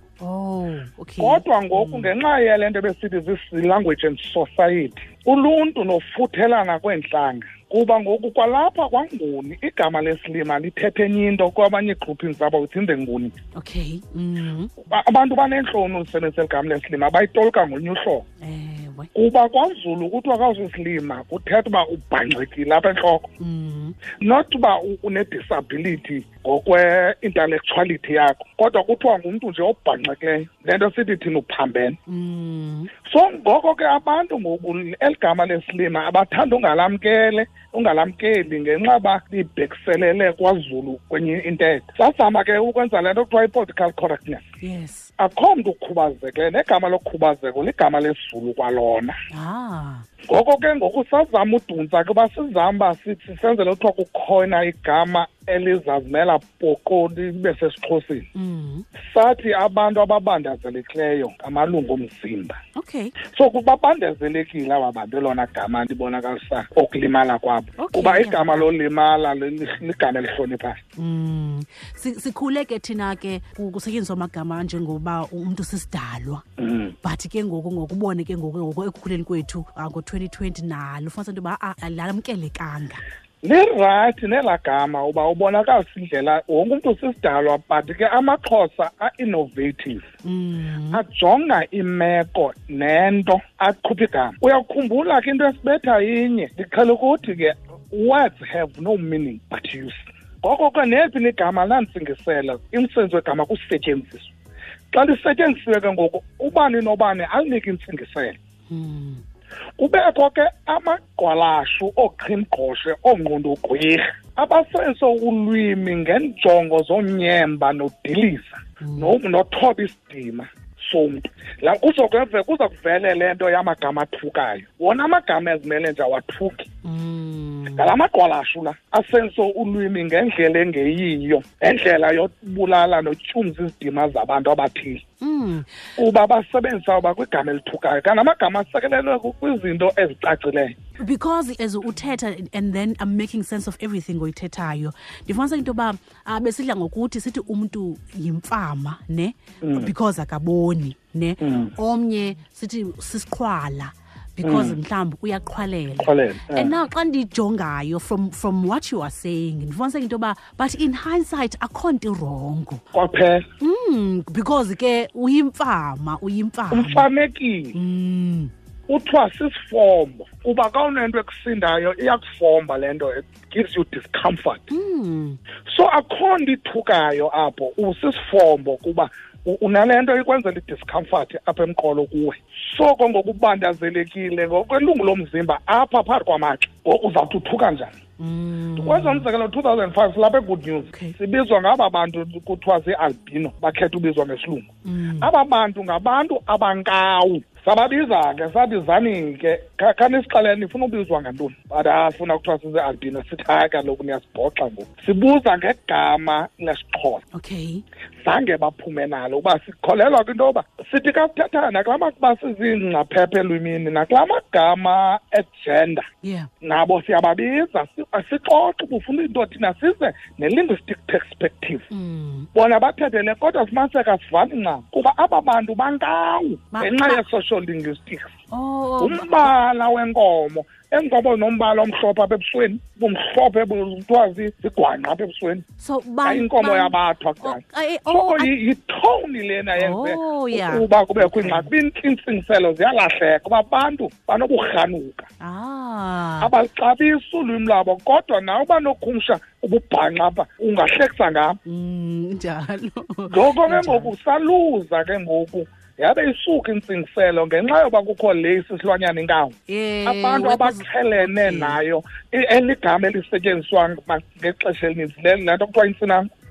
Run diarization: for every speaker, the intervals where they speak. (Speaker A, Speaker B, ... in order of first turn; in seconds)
Speaker A: 0.2-2.1, 13.6-14.7, 18.4-19.1, 23.4-24.0, 32.1-32.9, 44.6-45.1, 49.3-50.0, 58.3-58.9, 62.8-63.1, 67.8-68.7, 71.0-76.4, 77.0-83.0, 90.2-91.0, 108.7-109.2, 118.8-119.2, 126.8-127.9, 135.2-135.7, 141.0-162.8, 163.6-167.1, 167.7-168.5, 174.7-175.4, 188.2-189.3, 190.9-191.2, 194.8-195.3, 207.3-207.8, 216.2-216.5, 221.9-222.5, 226.7-227.2, 228.5-229.5, 235.8-238.5, 239.8-241.7, 245.4-246.5, 251.6-254.1, 259.7-261.8
Speaker B: 1.2-13.3, 14.8-18.2, 19.1-23.3, 24.2-32.0, 33.1-44.5, 45.2-49.1, 50.3-58.2, 59.1-62.6, 63.3-70.8, 76.6-76.9, 83.4-90.1, 90.9-104.3, 104.9-108.4, 109.8-126.7, 127.7-135.0, 136.0-140.8, 149.6-149.9, 151.4-151.7, 154.4-154.8, 156.0-156.7, 162.9-163.4, 166.7-167.8, 168.9-174.7, 175.7-187.9, 188.8-207.2, 208.2-216.1, 216.6-221.9, 222.5-228.3, 229.0-235.6, 236.2-245.3, 246.4-251.6, 253.3-266.3